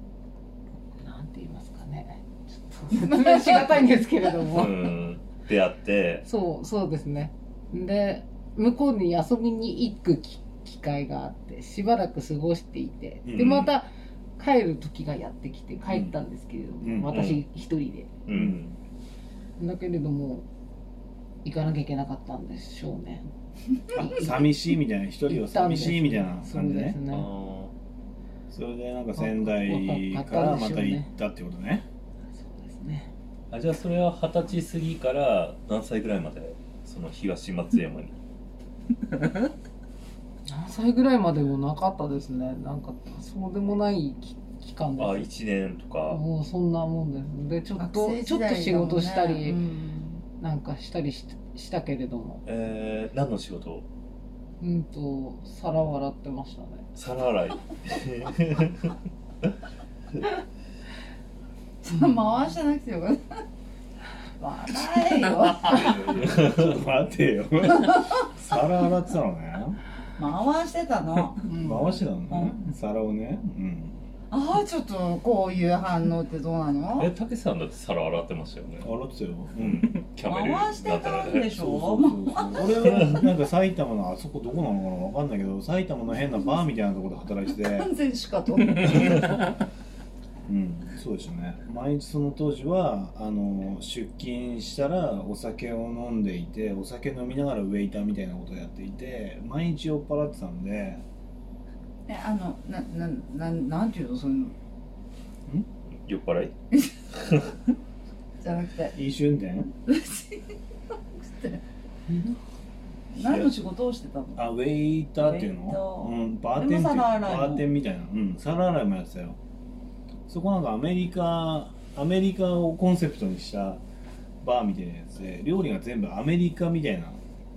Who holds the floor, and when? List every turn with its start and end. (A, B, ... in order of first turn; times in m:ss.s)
0:01.0-0:04.8 A
0:03.1-0:03.6 B
0:04.5-0:06.2 C
0:06.2-0:18.2 A
0:13.2-0:13.7 D
0:15.9-0:16.2 D
0:16.8-0:17.3 D
0:17.1-0:17.4 C
0:18.3-0:18.7 C
0:19.6-0:20.5 A
0:21.4-0:23.3 A
0:23.9-0:24.5 A
0:23.9-0:27.0 D
0:25.3-0:27.3 A
0:27.1-0:27.7 C
0:28.5-0:31.8 D
0:29.2-0:31.1 A
0:32.4-0:33.1 A
0:33.5-0:38.2 C
0:40.5-0:45.3 A
0:45.0-0:46.2 C
0:46.1-0:49.6 A
0:47.8-0:50.2 B
0:50.4-0:52.4 A
0:52.4-0:53.8 C
0:54.6-0:56.8 A
0:57.0-0:59.0 C
1:01.8-1:03.4 B
1:04.4-1:06.2 B
1:05.7-1:09.8 D
1:06.2-1:06.8 C
1:10.2-1:11.5 B
1:11.5-1:12.0 A
1:11.6-1:14.0 D
1:12.3-1:12.6 B
1:14.3-1:17.1 B
1:17.0-1:18.9 C
1:18.8-1:19.9 D
1:19.6-1:21.7 C
1:20.3-1:23.1 B
1:21.5-1:27.9 D
1:22.8-1:23.2 C
1:27.6-1:29.4 B
1:30.5-1:41.0 D
1:42.1-1:44.5 B
1:46.1-1:46.5 C
1:48.4-1:49.0 B
1:48.9-1:49.7 D
1:49.9-1:50.5 B
1:51.1-1:51.6 B
1:53.1-1:54.5 B
1:53.2-1:53.5 C
1:54.4-1:59.4 D
1:55.2-1:57.7 B
2:00.3-2:03.8 D
2:04.4-2:07.2 D